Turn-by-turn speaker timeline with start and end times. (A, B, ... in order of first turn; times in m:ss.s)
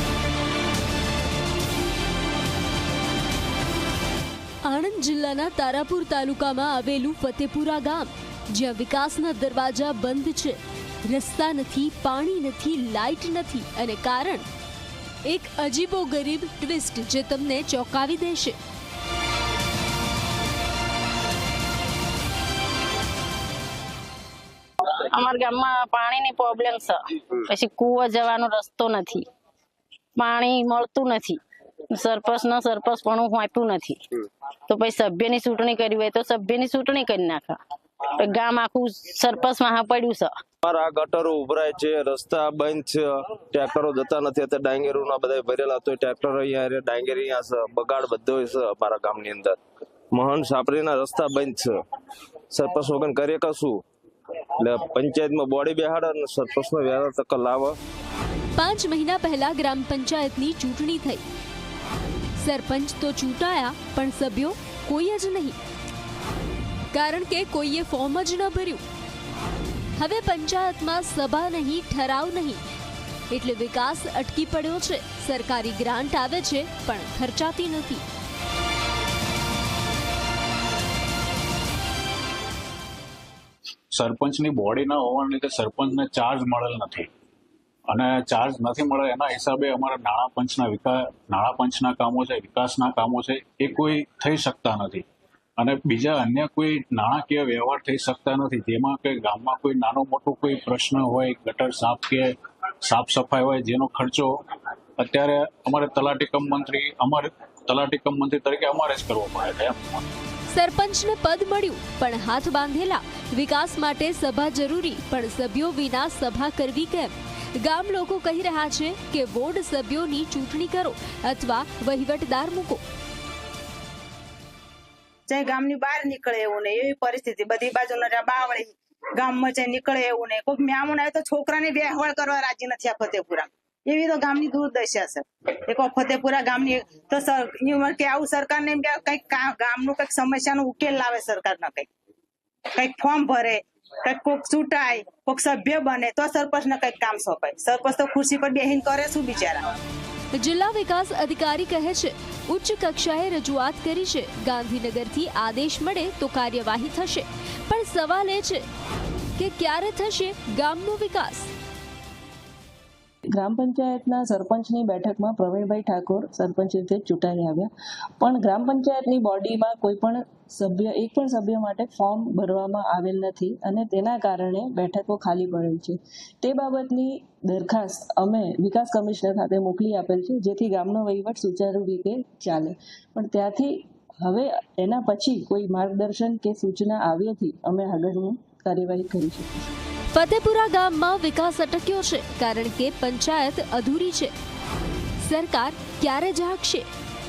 0:04.6-0:14.5 A
0:15.2-0:18.6 A
0:25.1-0:29.3 B
0:30.2-0:34.0 B
0:34.7-0:37.6 B
0:38.2-0:40.4 B
0:40.6-0:49.6 C
0:50.1-0:51.8 C
0:52.5-0:53.8 C
0:54.6-0:57.8 C
0:58.6-1:01.2 A
1:02.4-1:05.6 A
1:06.9-1:08.8 A
1:10.0-1:12.6 A
1:13.3-1:18.0 A
1:23.9-1:27.1 D
1:27.9-1:35.0 D
1:35.6-1:42.3 D
1:42.8-1:44.4 D
1:45.0-1:50.0 D
1:50.5-2:02.8 A
2:05.3-2:21.9 E
2:22.7-2:29.6 E
2:30.4-2:38.6 A
2:39.4-2:41.5 A
2:43.3-3:09.7 F
3:10.1-3:14.3 A
3:15.2-3:16.9 A